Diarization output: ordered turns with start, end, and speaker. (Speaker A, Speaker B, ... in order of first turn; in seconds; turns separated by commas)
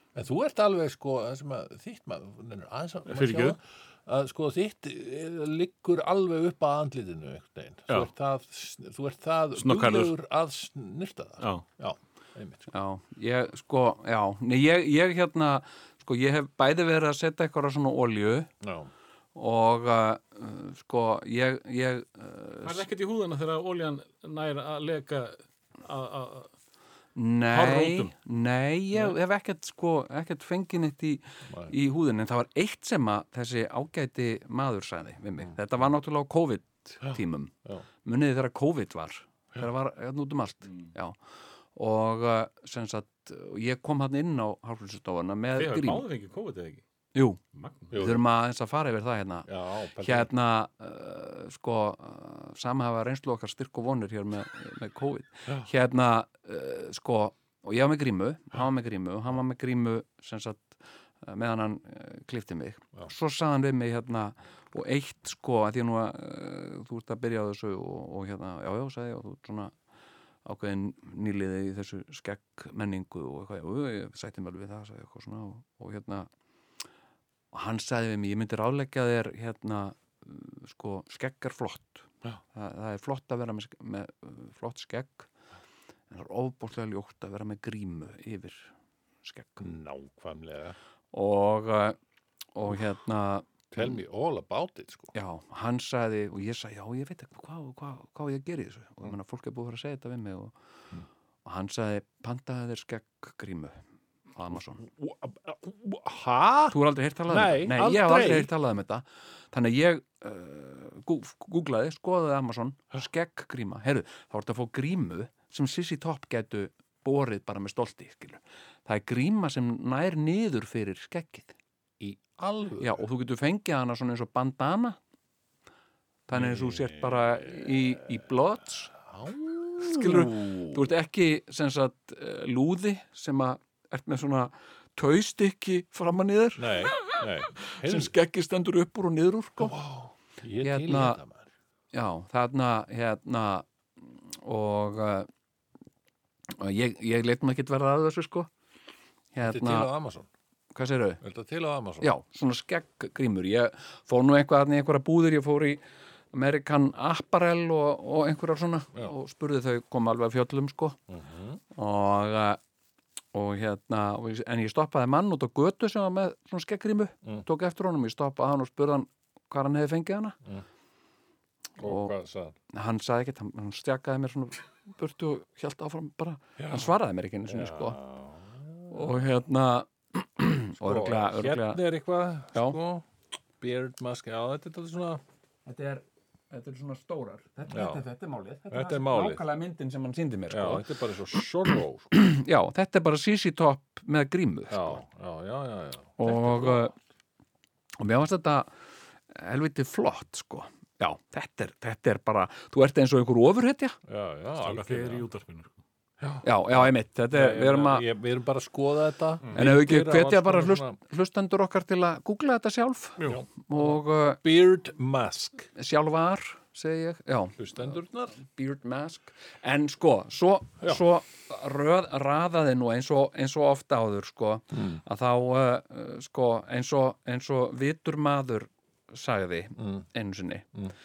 Speaker A: 0.1-12.7, Speaker B: 3.1-3.6, Speaker B: 9.6-10.1, Speaker C: 12.7-18.5, Speaker A: 18.6-18.9, Speaker C: 19.4-22.9, Speaker B: 22.6-26.5, Speaker C: 27.1-41.2, Speaker B: 27.5-28.1, Speaker A: 31.5-31.7, Speaker A: 37.0-37.9, Speaker C: 41.8-46.1, Speaker B: 45.5-46.8, Speaker C: 47.1-47.4, Speaker B: 47.5-47.9, Speaker A: 47.9-48.2, Speaker C: 48.0-69.7, Speaker A: 49.5-50.3, Speaker C: 70.5-76.3, Speaker C: 77.5-85.3, Speaker C: 86.1-88.7, Speaker C: 89.2-89.6, Speaker A: 89.6-90.8, Speaker C: 91.1-92.0, Speaker C: 92.5-93.8, Speaker A: 93.7-95.1, Speaker C: 95.1-100.5, Speaker C: 101.5-103.8, Speaker C: 104.3-104.8, Speaker A: 104.8-106.8, Speaker C: 106.7-121.5, Speaker A: 107.3-108.5, Speaker A: 122.0-123.0, Speaker C: 122.8-125.0, Speaker C: 126.3-128.9, Speaker A: 126.3-127.8, Speaker A: 128.9-130.9, Speaker C: 129.8-139.8, Speaker A: 136.6-138.2, Speaker A: 139.6-141.5, Speaker C: 140.6-141.2, Speaker C: 141.9-145.3, Speaker C: 146.5-148.5, Speaker C: 149.3-149.9, Speaker A: 149.4-150.3, Speaker C: 150.7-151.2, Speaker A: 151.2-152.1, Speaker C: 152.0-155.8, Speaker C: 156.3-161.0, Speaker A: 161.1-161.6, Speaker C: 161.7-162.6, Speaker C: 163.3-170.4, Speaker A: 171.8-172.6, Speaker C: 171.8-172.2, Speaker C: 172.7-178.0, Speaker A: 176.6-176.9, Speaker A: 177.5-179.1, Speaker C: 178.9-181.8, Speaker A: 180.8-183.1, Speaker A: 183.6-185.2, Speaker C: 185.7-190.8, Speaker A: 187.7-188.0, Speaker A: 188.7-189.4, Speaker A: 190.5-192.1, Speaker C: 191.7-195.0, Speaker A: 194.7-196.9, Speaker C: 196.2-196.9, Speaker C: 198.0-198.7, Speaker C: 199.3-204.0, Speaker A: 204.1-205.3, Speaker B: 204.6-205.7, Speaker A: 206.2-211.0, Speaker C: 206.4-208.1, Speaker C: 209.5-214.4, Speaker A: 213.2-215.7, Speaker C: 215.8-230.7, Speaker A: 217.6-218.3, Speaker A: 224.7-225.0, Speaker A: 229.8-230.1